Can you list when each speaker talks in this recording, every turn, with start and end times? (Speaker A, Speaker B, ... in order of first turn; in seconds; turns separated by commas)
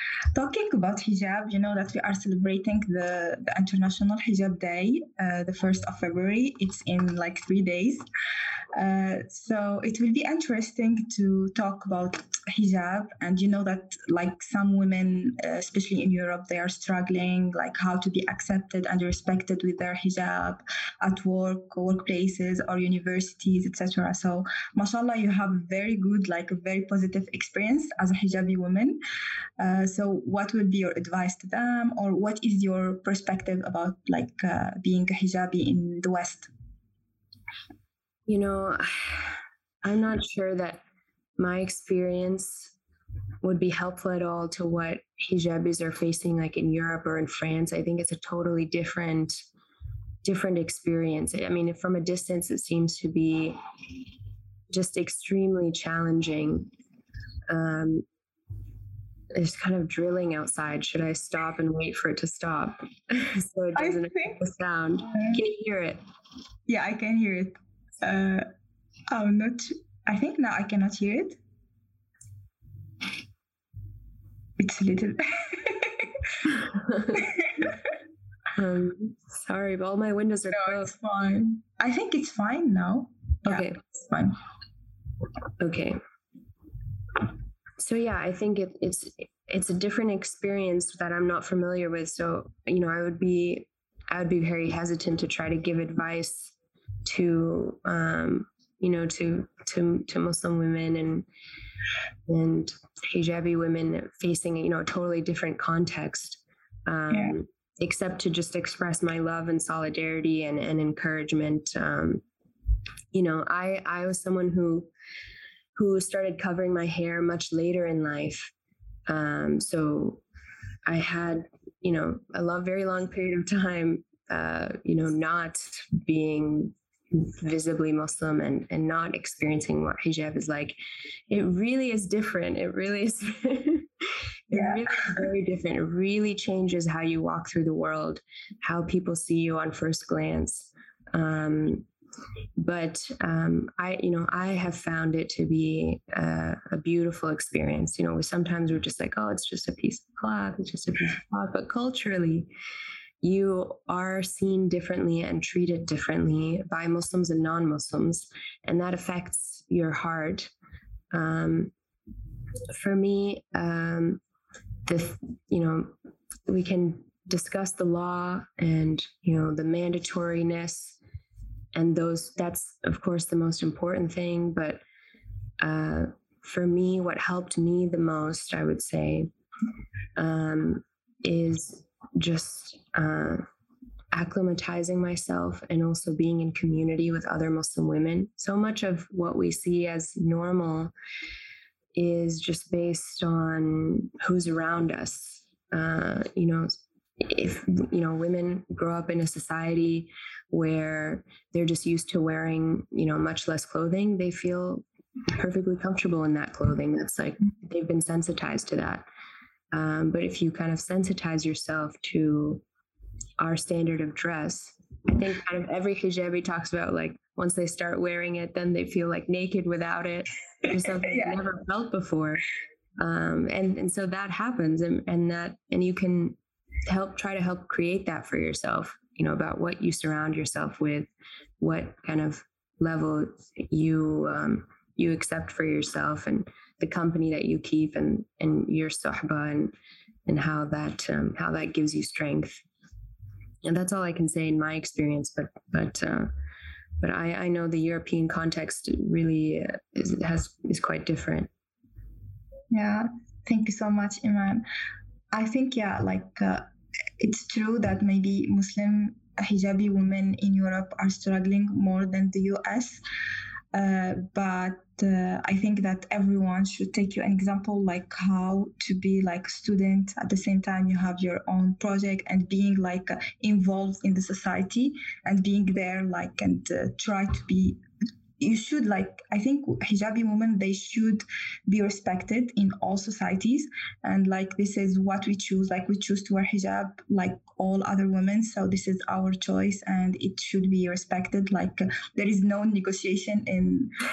Speaker A: 0.3-8.1, Speaker A: 8.8-29.0, Speaker A: 29.6-36.5, Speaker B: 38.3-40.8, Speaker B: 41.4-42.7, Speaker B: 43.4-49.4, Speaker B: 50.2-53.6, Speaker B: 54.7-56.7, Speaker B: 57.5-58.0, Speaker B: 59.4-66.0, Speaker A: 63.8-64.4, Speaker A: 66.7-68.5, Speaker A: 69.1-71.4, Speaker A: 74.6-76.3, Speaker B: 76.9-77.3, Speaker A: 77.1-77.8, Speaker B: 78.5-80.9, Speaker A: 80.5-84.3, Speaker B: 83.5-83.8, Speaker B: 85.6-86.0, Speaker B: 87.8-96.5, Speaker B: 97.0-101.3, Speaker B: 102.3-112.2, Speaker B: 113.1-114.9, Speaker B: 115.8-118.5, Speaker B: 119.1-120.2, Speaker B: 120.9-130.8, Speaker B: 131.3-141.9, Speaker A: 134.5-134.8, Speaker B: 142.6-152.5, Speaker B: 153.2-160.5, Speaker B: 161.1-161.7, Speaker B: 162.7-164.2, Speaker B: 164.9-165.9, Speaker B: 166.5-171.0, Speaker B: 171.7-174.8, Speaker B: 175.6-179.3, Speaker B: 180.2-183.4, Speaker B: 184.1-190.9, Speaker B: 191.9-209.1, Speaker B: 209.7-212.6, Speaker B: 213.4-222.4, Speaker A: 221.1-221.4, Speaker B: 223.0-226.4, Speaker B: 226.9-231.1, Speaker B: 231.6-239.7, Speaker B: 240.3-242.6, Speaker B: 243.6-246.3, Speaker B: 247.0-251.5, Speaker A: 252.7-254.6, Speaker A: 255.3-256.7, Speaker A: 257.2-263.0, Speaker A: 263.7-277.8, Speaker A: 278.4-293.9